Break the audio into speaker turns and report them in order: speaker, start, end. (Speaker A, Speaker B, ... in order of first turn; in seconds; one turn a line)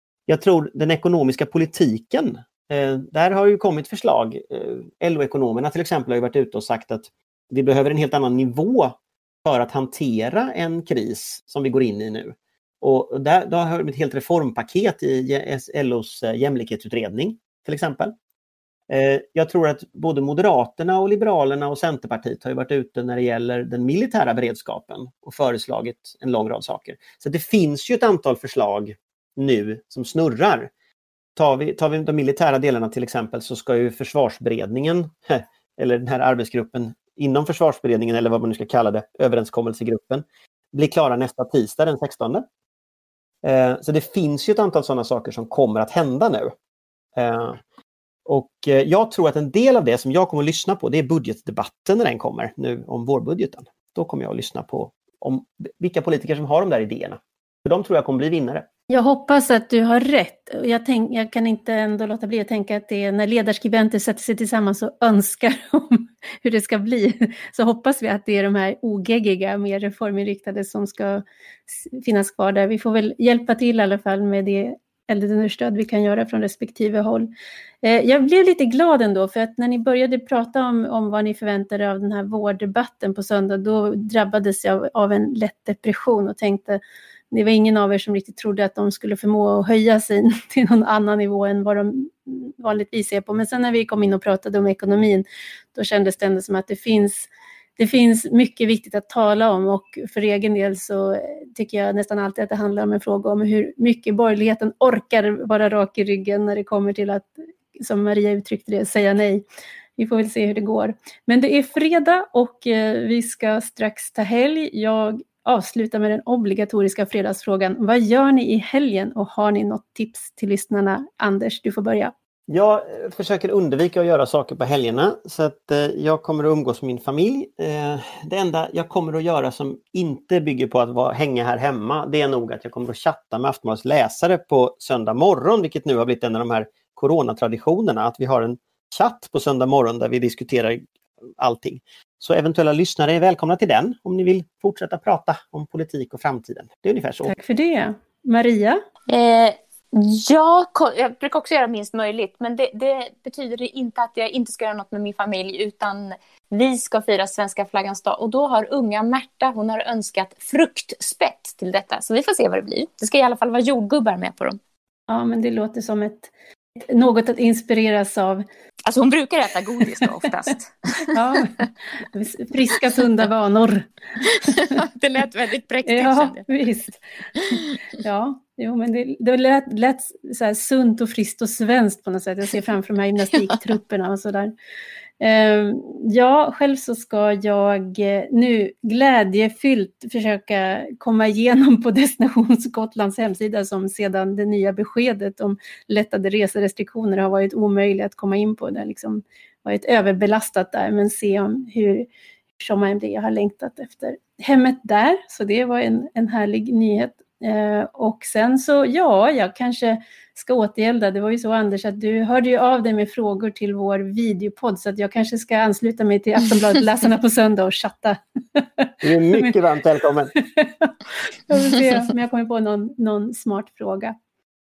Speaker A: 0.3-18.1
Speaker A: 18.9-30.7
Speaker A: 31.4-42.4
Speaker A: 43.4-46.5
Speaker A: 47.1-47.6
Speaker A: 48.2-58.6
Speaker B: 58.9-77.3
Speaker B: 77.8-86.8
Speaker B: 87.3-109.4
Speaker B: 110.0-122.1
Speaker A: 122.5-140.8
Speaker A: 141.4-147.3
Speaker B: 147.2-148.8
Speaker C: 149.1-164.6
Speaker B: 165.1-166.3
Speaker B: 166.9-168.4
Speaker C: 168.8-171.7
Speaker B: 171.1-174.8
Speaker C: 174.2-176.5
Speaker B: 175.8-177.0
Speaker C: 177.4-177.6
Speaker B: 177.5-184.5
Speaker B: 185.2-202.1
Speaker B: 202.6-219.5
Speaker A: 219.0-220.3
Speaker B: 220.3-220.9
Speaker B: 221.5-224.1